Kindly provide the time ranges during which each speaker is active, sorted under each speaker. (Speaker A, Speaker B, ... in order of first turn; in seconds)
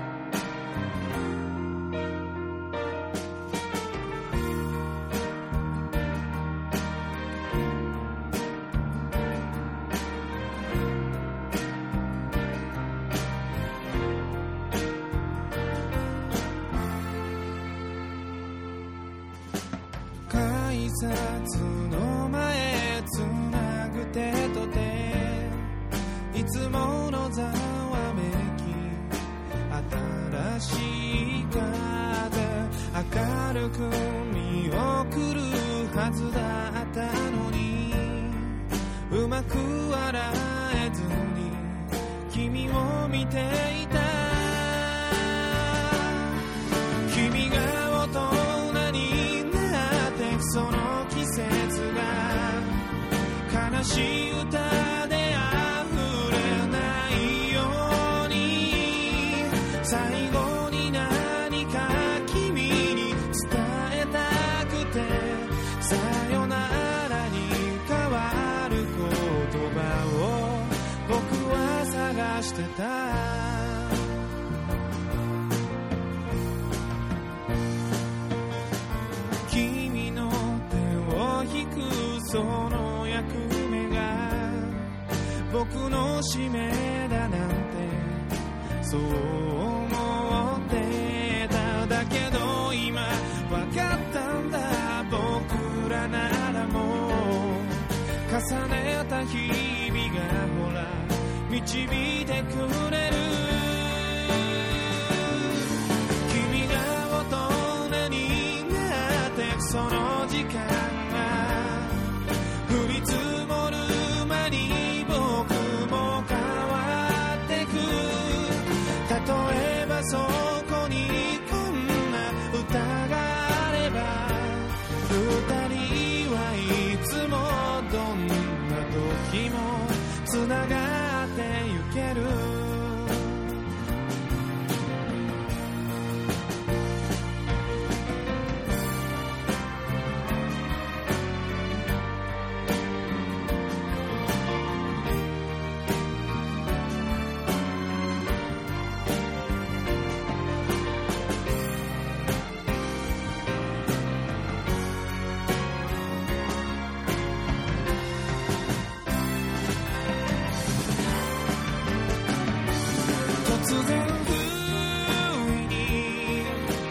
Speaker A: 20.3-25.8, 26.3-46.4, 47.1-52.9, 53.5-74.2, 79.4-133.5, 163.4-166.7